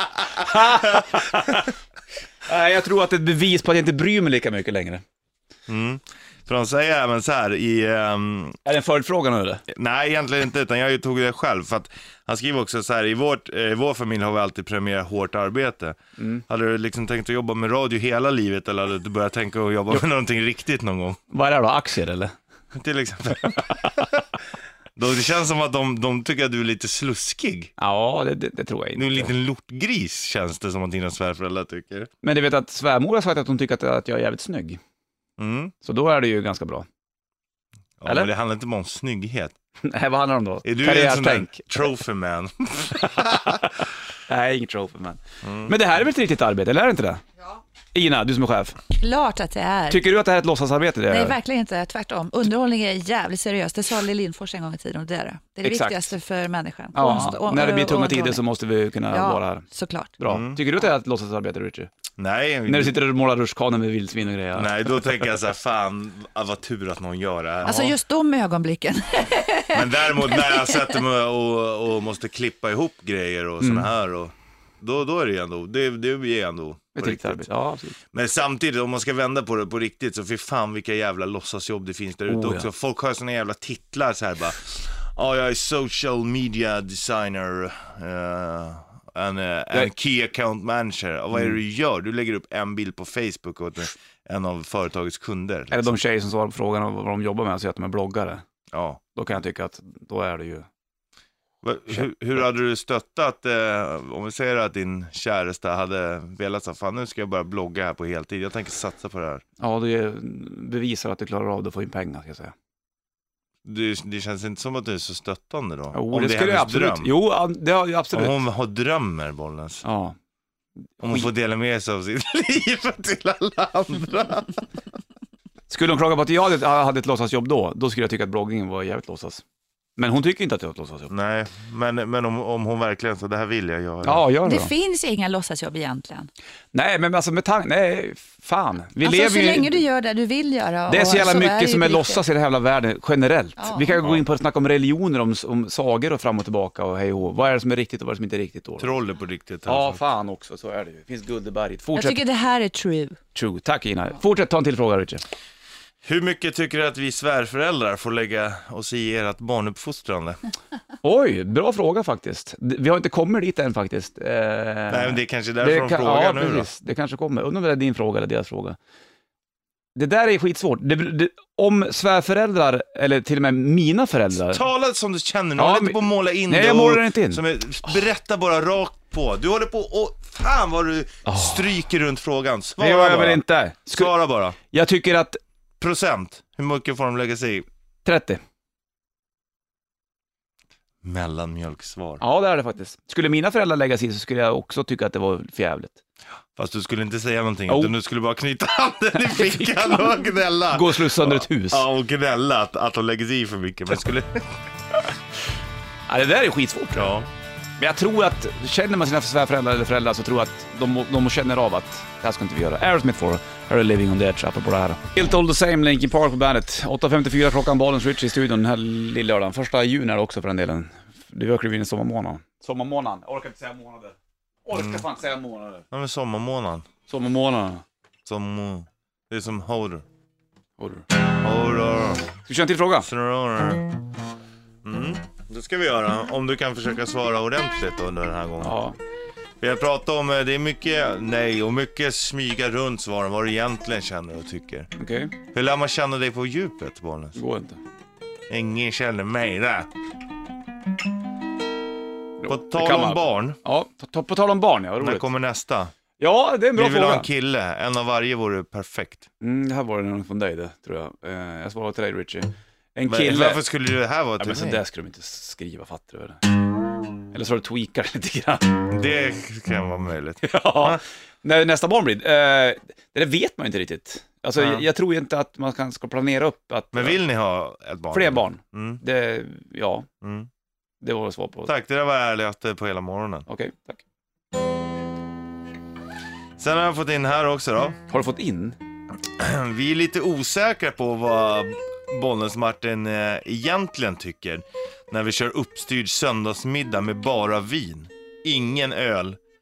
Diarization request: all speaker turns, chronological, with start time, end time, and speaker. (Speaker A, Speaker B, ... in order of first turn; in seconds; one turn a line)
Speaker A: 0.4-1.7
Speaker B: 0.4-1.6
Speaker A: 2.5-5.0
Speaker B: 5.7-8.6
Speaker A: 8.6-9.6
Speaker B: 9.7-21.2
Speaker A: 16.2-16.4
Speaker A: 21.3-22.3
Speaker B: 22.7-24.3
Speaker B: 24.9-27.7
Speaker A: 27.8-29.3
Speaker B: 28.9-32.1
Speaker A: 32.2-34.8
Speaker B: 35.4-35.7
Speaker A: 35.8-36.9
Speaker B: 38.0-39.5
Speaker A: 39.8-41.9
Speaker B: 40.6-43.8
Speaker A: 44.3-47.2
Speaker B: 45.4-45.8
Speaker A: 47.9-48.8
Speaker C: 48.9-50.0
Speaker A: 49.9-51.4
Speaker C: 51.1-58.4
Speaker A: 55.6-56.1
Speaker A: 56.9-59.6
Speaker C: 59.1-60.1
Speaker A: 60.2-61.9
Speaker B: 60.3-60.6
Speaker B: 62.2-63.0
Speaker A: 62.6-65.3
Speaker B: 64.5-67.9
Speaker C: 67.6-70.9
Speaker B: 69.7-77.4
Speaker A: 73.6-73.9
Speaker A: 77.0-78.0
Speaker B: 78.1-95.9
Speaker A: 82.3-82.7
Speaker A: 95.7-98.4
Speaker B: 98.7-99.0
Speaker A: 99.1-100.7
Speaker B: 101.6-109.4
Speaker A: 109.6-112.5
Speaker B: 113.6-117.1
Speaker A: 115.9-118.4
Speaker B: 118.1-119.8
Speaker A: 119.8-120.2
Speaker B: 121.0-124.6
Speaker A: 121.0-121.3
Speaker A: 125.7-129.4
Speaker A: 130.0-131.1
Speaker B: 131.1-134.2
Speaker A: 134.0-134.7
Speaker C: 134.4-136.3
Speaker A: 136.7-139.8
Speaker C: 139.0-142.2
Speaker A: 140.9-148.9
Speaker C: 143.6-143.9
Speaker B: 148.8-150.0
Speaker A: 149.7-152.2
Speaker C: 151.9-153.2
Speaker A: 153.3-155.2
Speaker B: 156.0-160.4
Speaker A: 161.0-168.8
Speaker B: 164.9-166.7
Speaker A: 169.9-174.6
Speaker B: 174.4-184.6
Speaker A: 175.6-177.4
Speaker A: 181.3-181.7
Speaker A: 182.8-184.1
Speaker A: 184.6-185.4
Speaker B: 185.8-187.7
Speaker A: 188.1-188.4
Speaker B: 191.0-192.2
Speaker A: 192.2-196.0
Speaker B: 196.6-204.5
Speaker A: 199.2-201.8
Speaker A: 206.1-207.1
Speaker B: 206.9-207.3
Speaker A: 207.8-225.9
Speaker B: 224.7-225.1
Speaker B: 225.9-226.9
Speaker A: 227.1-227.8
Speaker B: 228.3-230.1
Speaker A: 230.8-231.1
Speaker B: 231.2-232.3
Speaker A: 232.4-233.1
Speaker B: 233.0-234.0
Speaker B: 234.8-238.8
Speaker A: 238.6-239.0
Speaker B: 239.6-244.9
Speaker A: 244.9-245.3
Speaker B: 245.5-247.4
Speaker A: 247.4-247.8
Speaker B: 248.5-249.9
Speaker A: 252.4-255.3
Speaker B: 252.4-253.6
Speaker B: 255.0-255.9
Speaker A: 256.2-257.3
Speaker B: 256.8-259.3
Speaker A: 259.4-263.6
Speaker B: 263.1-264.8
Speaker A: 264.4-266.5
Speaker A: 267.3-268.8
Speaker B: 268.9-271.0
Speaker A: 270.4-277.2
Speaker B: 274.6-274.9
Speaker B: 276.9-279.0
Speaker A: 278.1-280.1
Speaker B: 280.2-280.5
Speaker A: 281.0-281.7
Speaker B: 281.6-283.4
Speaker A: 283.5-284.0
Speaker B: 286.6-288.0
Speaker A: 288.1-288.8
Speaker B: 289.3-299.4